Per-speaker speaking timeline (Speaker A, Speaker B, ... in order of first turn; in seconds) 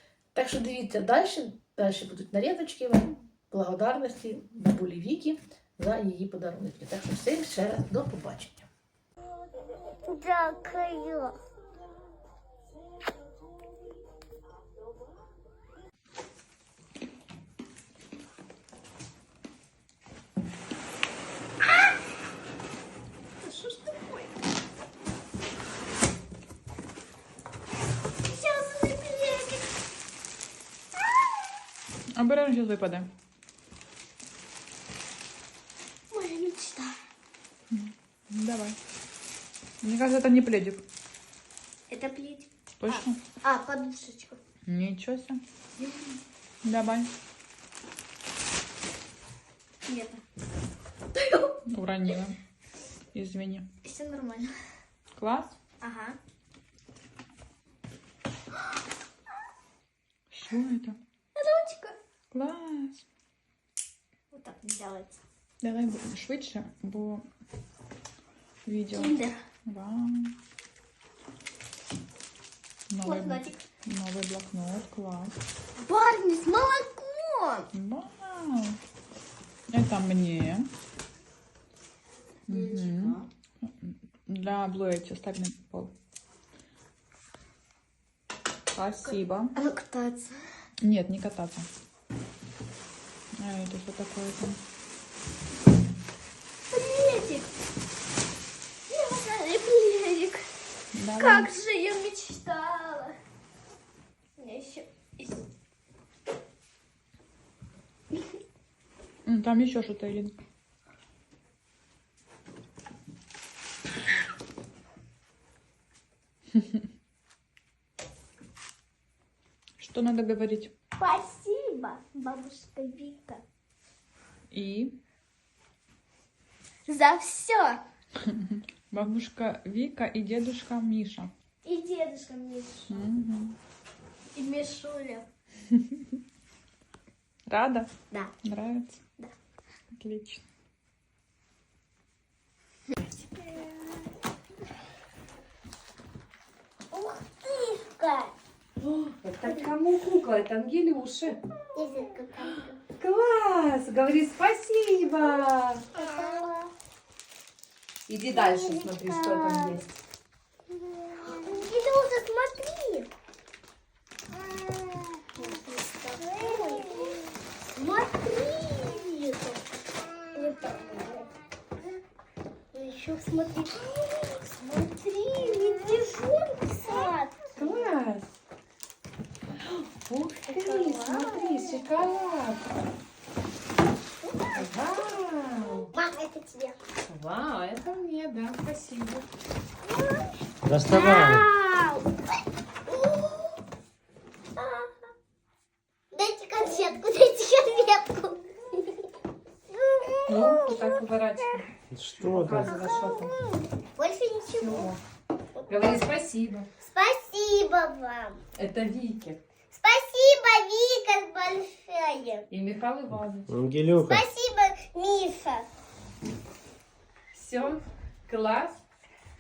Speaker A: 0.3-8.7
Speaker B: 10.1-11.4, 23.4-24.2, 28.2-29.6, 36.1-37.0, 41.9-44.4, 45.8-46.1, 49.9-50.2, 51.1-51.5, 53.8-54.5, 55.8-56.2, 61.4-62.0, 64.3-65.2, 68.9-69.3, 73.0-73.6, 75.8-77.7, 82.5-83.3, 89.1-90.4, 96.7-97.5, 98.9-100.4, 101.2-103.2, 104.4-105.4, 121.0-123.4, 126.9-127.8, 131.6-133.0, 134.3-135.2, 143.4-144.1, 146.9-148.3, 151.7-152.8, 155.9-156.7, 158.3-159.8, 160.7-163.1, 164.4-167.2, 167.7-169.6, 170.3-171.3, 172.7-174.3, 175.3-177.9, 180.5-181.8, 184.2-184.7, 185.9-186.8, 189.8-190.4, 190.9-192.1, 192.9-193.6, 194.6-194.9, 196.1-199.1, 199.7-200.9, 202.7-204.9, 206.8-208.4, 209.7-212.4, 213.9-215.7
Speaker C: 32.1-33.1, 37.7-38.8, 39.8-40.8, 42.8-43.2, 44.7-45.4, 46.6-47.1, 51.7-52.4, 53.1-53.7, 55.2-55.6, 60.3-61.0, 62.3-63.0, 65.6-67.2, 68.7-70.4, 72.9-75.3, 77.7-78.8, 79.7-80.7, 82.5-85.9, 88.8-89.5, 90.8-91.7, 93.4-94.6, 100.9-101.5, 109.2-110.3, 119.8-120.7, 124.5-125.0, 128.3-131.3, 132.9-133.6, 137.5-137.9, 138.4-139.0, 140.0-140.4
Speaker D: 148.8-151.4, 153.0-155.9, 158.1-159.9, 166.4-166.9, 174.5-176.2, 176.9-178.3, 179.6-182.8, 184.5-185.9, 187.1-189.3, 200.3-203.5, 204.6-205.0, 205.7-206.7, 208.6-209.4, 212.5-213.5, 217.3-218.8
Speaker E: 190.6-191.5, 201.9-202.9, 213.5-214.3